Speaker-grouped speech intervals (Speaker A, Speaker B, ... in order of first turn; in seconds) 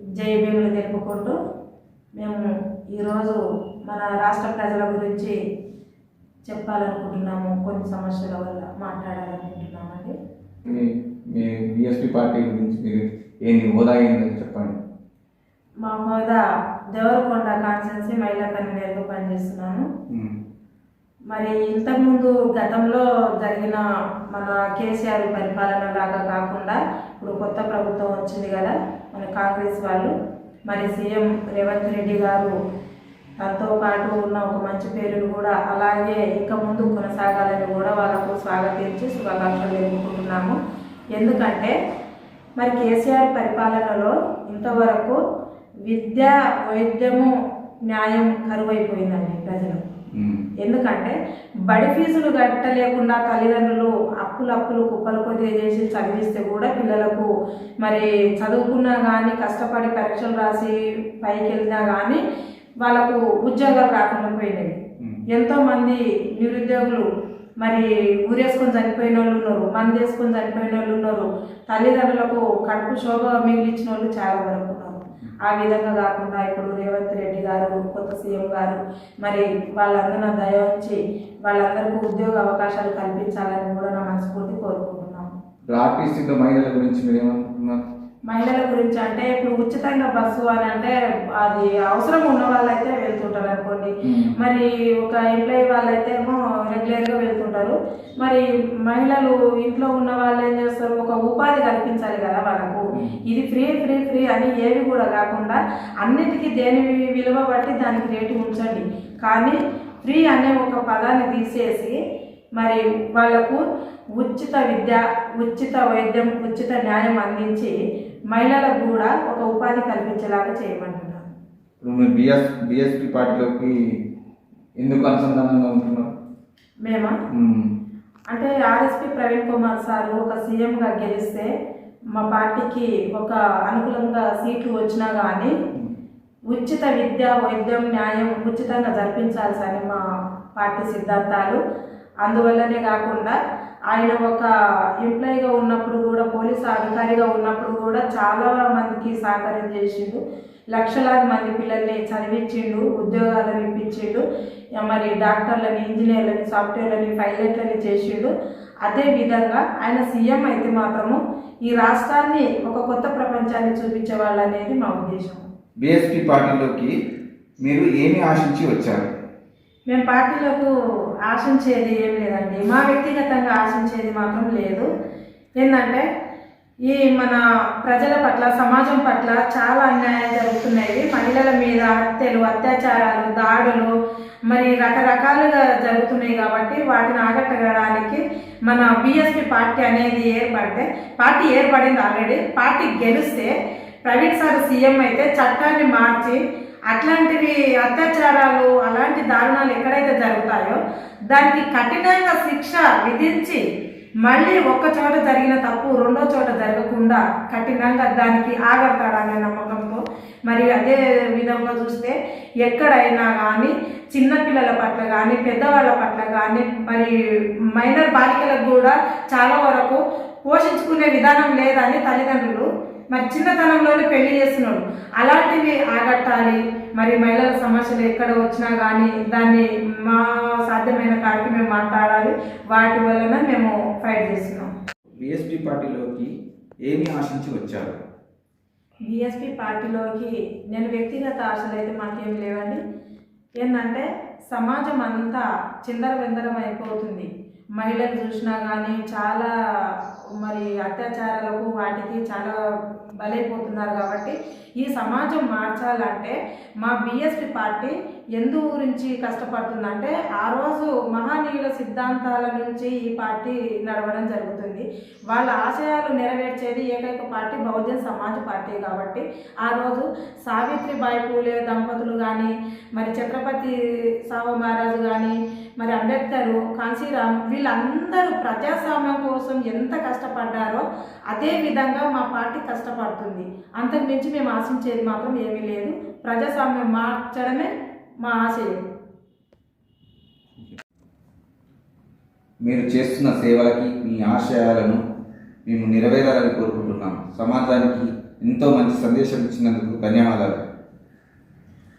Speaker A: 0.2-1.4, 2.2-5.3, 6.5-10.1, 15.8-16.4, 16.9-19.9, 21.3-30.1, 30.7-32.5, 33.4-40.6, 41.1-41.7, 42.6-45.2, 45.9-47.3, 47.9-49.8, 50.6-51.1, 51.7-57.3, 57.8-62.2, 62.8-67.0, 67.6-85.3, 88.3-112.0, 112.6-113.6, 114.2-117.7, 118.3-121.2, 126.8-127.2, 128.3-131.5, 132.1-135.5, 136.5-140.0, 140.6-141.6, 142.2-143.3, 143.9-144.5, 145.0-150.2, 150.7-154.2, 154.8-158.3, 158.8-165.4, 169.9-170.7, 171.3-174.9, 175.6-176.1, 176.9-183.9, 184.5-193.5, 194.0-203.6, 204.2-217.1, 217.8-234.7, 239.1-242.8, 243.6-252.6, 253.2-273.7, 274.2-287.7, 288.2-288.8
Speaker B: 10.7-14.8, 50.1-50.4, 85.7-87.8, 94.0-94.3, 121.8-123.8, 124.8-126.1, 127.3-127.7, 165.8-166.9, 167.6-169.1, 235.2-236.3, 236.8-238.0, 292.6-295.0, 295.7-300.6